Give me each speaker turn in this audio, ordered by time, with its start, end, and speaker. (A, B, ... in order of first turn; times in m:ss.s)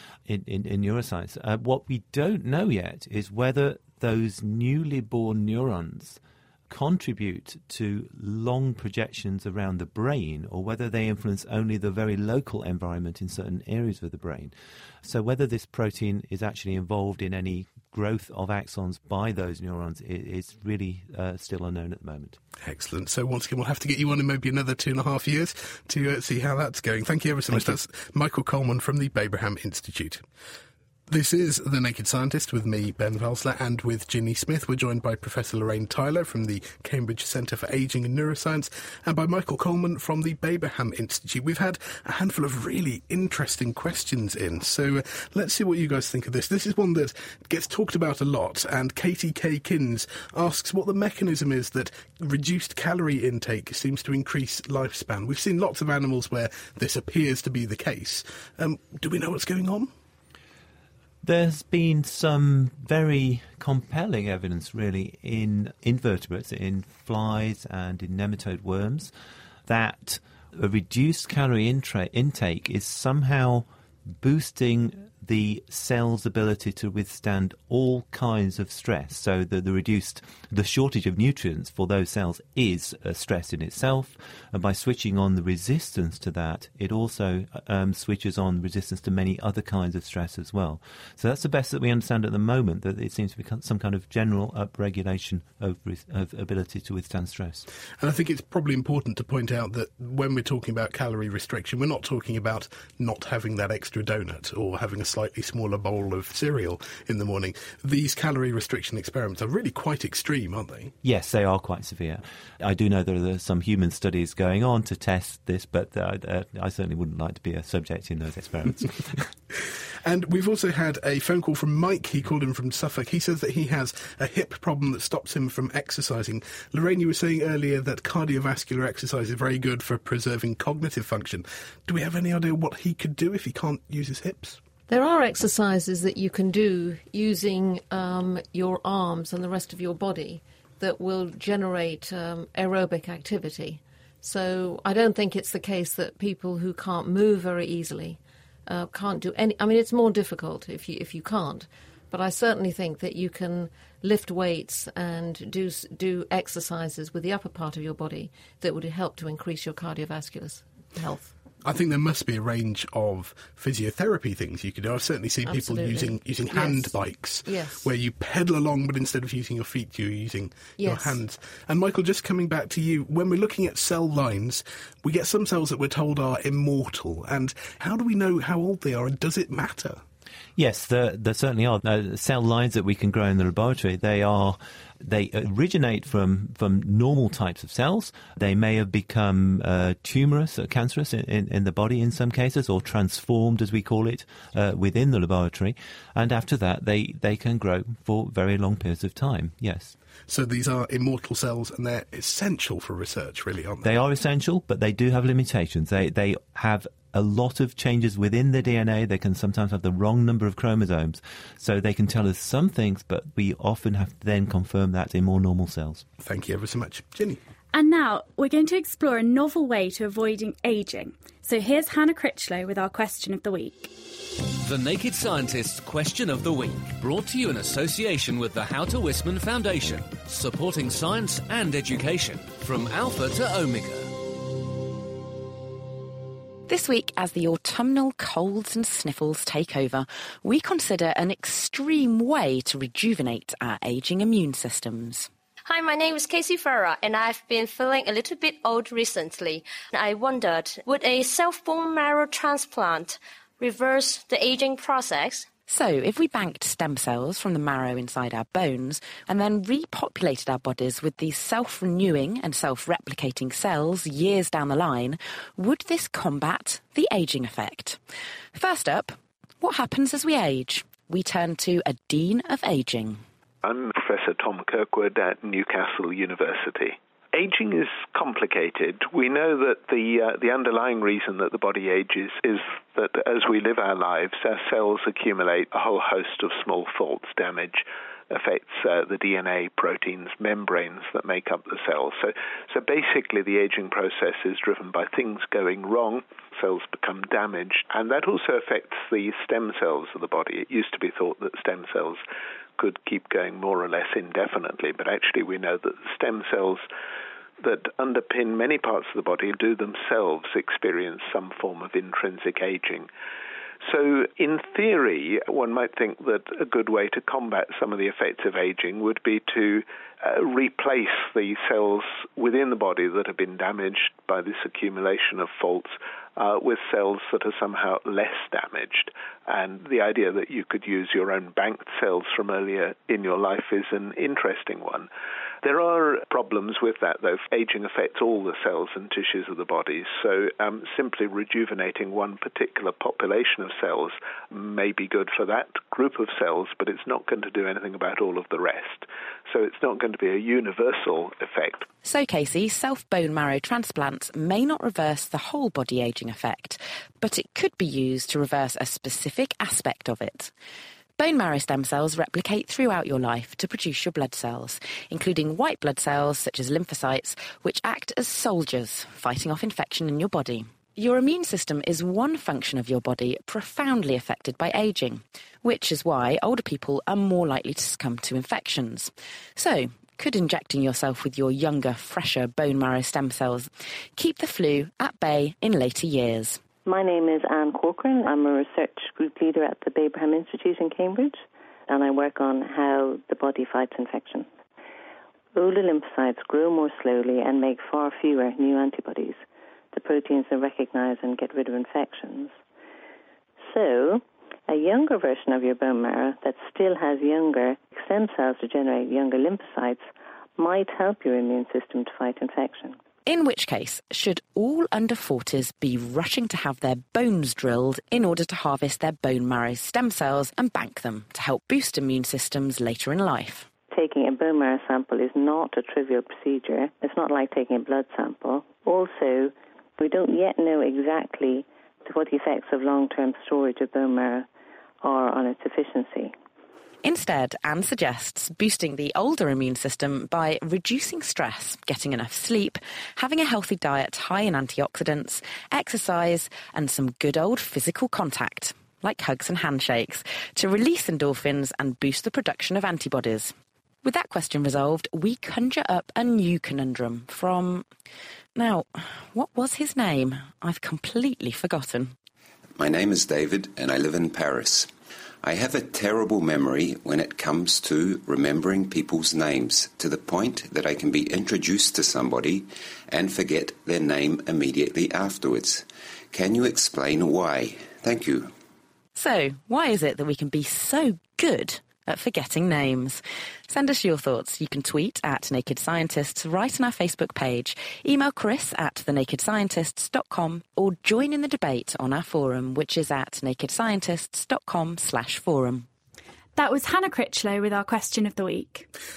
0:00.2-0:22.4 A
0:22.6-0:30.2 B
0:27.5-0:27.8 A
0:31.1-0:59.9 B
1:01.2-1:09.1 A
1:09.6-1:13.6 A
1:14.2-1:37.6 A
1:38.0-1:50.9 B
1:51.0-1:59.3 A
2:00.0-2:14.6 B
2:14.9-2:41.3 C
2:41.6-3:00.0 B
2:45.4-2:47.9 C
2:50.8-2:51.2 C
3:00.6-3:20.0 A
3:20.3-3:23.9 B
3:23.8-3:36.0 A
3:36.2-3:37.4 B
3:37.7-3:43.9 D
3:44.6-3:54.1 E
3:56.7-4:05.3 F
4:05.7-4:15.5 G
4:15.7-4:28.0 F
4:28.5-4:33.2 F
4:33.6-5:02.2 H
5:02.8-5:06.8 H
5:07.6-5:13.1 H
5:13.8-5:35.1 H
5:35.6-5:51.9 H
5:52.0-6:00.5 F
6:01.2-6:26.6 F
6:26.8-6:34.5 I
6:35.5-6:39.4 I
6:39.9-6:42.6 I
6:43.6-6:50.1 I
6:50.6-6:53.0 I
6:53.2-7:03.7 F
7:03.9-7:14.5 I
7:15.0-7:16.3 I
7:17.0-7:33.5 F
7:34.0-7:37.9 F
7:38.6-7:42.1 F
7:42.8-7:44.9 J
7:45.4-7:58.5 J
7:59.2-8:15.9 F
8:16.6-8:18.9 D